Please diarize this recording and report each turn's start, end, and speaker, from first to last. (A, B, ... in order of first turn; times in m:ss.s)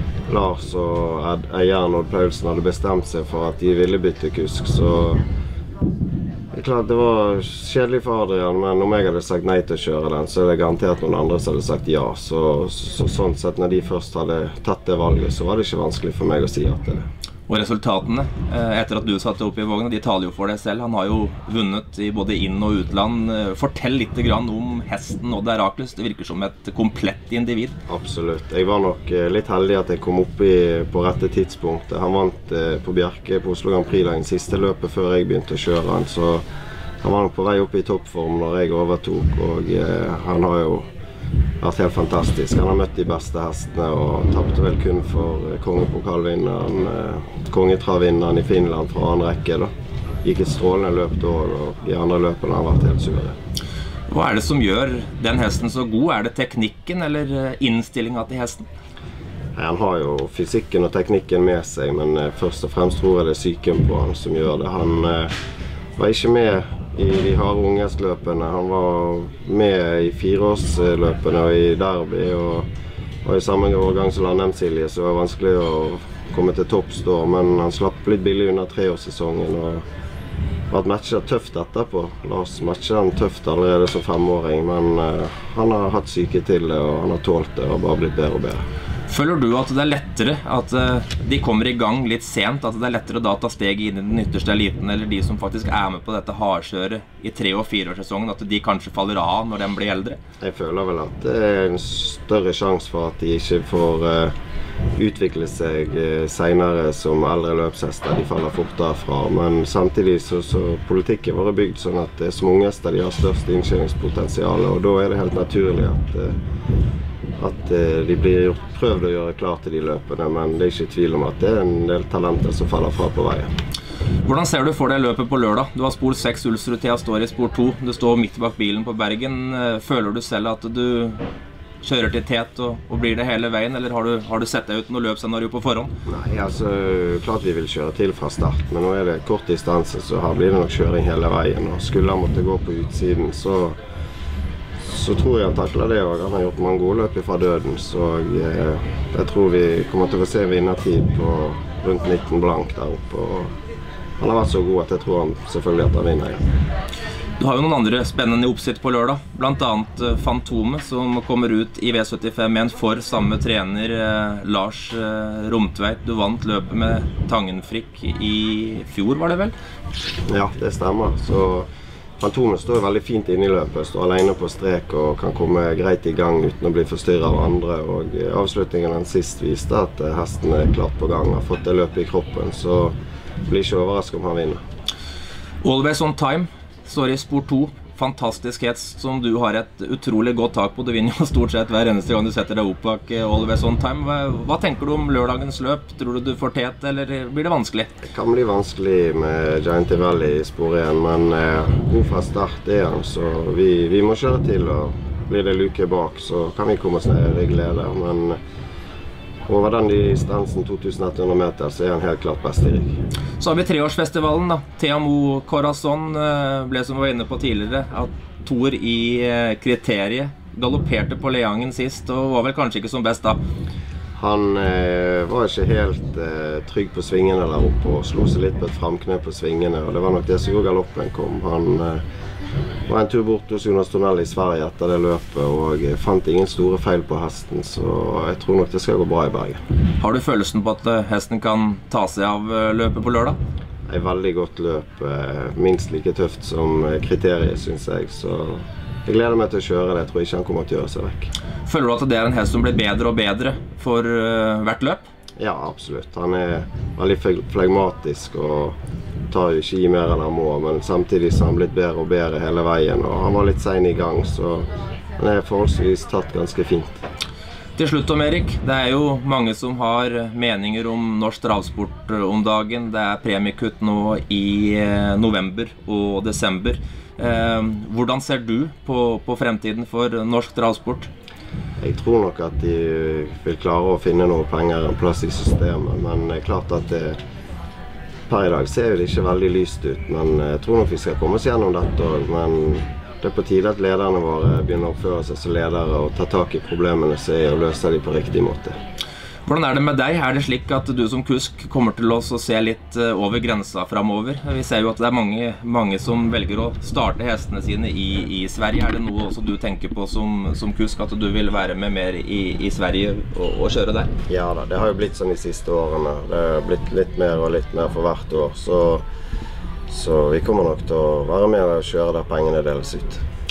0:00.3-0:05.2 A
0:06.5-0:17.0 A
0:17.5-0:27.8 B
0:27.9-0:36.4 A
0:37.0-0:40.9 A
0:41.6-0:49.7 A
0:50.2-0:53.4 A
0:54.1-0:58.6 B
0:59.6-1:05.3 A
1:06.0-1:12.7 A
1:13.2-1:19.8 A
1:20.7-1:28.6 A
1:29.1-1:40.2 B
1:40.4-1:44.3 A
1:45.0-1:56.4 A
1:57.4-2:03.5 A
2:04.2-2:11.2 B
2:11.8-2:15.9 B
2:16.1-2:23.8 A
2:24.8-2:33.5 A
2:34.2-2:36.4 A
2:37.4-2:49.5 B
2:50.3-2:51.7 A
2:52.2-3:03.0 A
3:03.5-3:04.6 A
3:05.6-3:17.9 B
3:18.1-3:28.4 A
3:29.5-3:33.0 A
3:33.4-3:43.4 B
3:44.2-3:52.0 A
3:52.9-3:59.6 A
4:00.0-4:03.4 B
4:03.9-4:11.3 A
4:11.7-4:15.0 B
4:15.4-4:18.8 A
4:19.3-4:27.0 A
4:27.8-4:41.1 B
4:41.8-4:47.2 A
4:48.3-4:58.8 A
4:59.5-5:14.1 B
5:14.3-5:19.0 A
5:19.9-5:23.2 A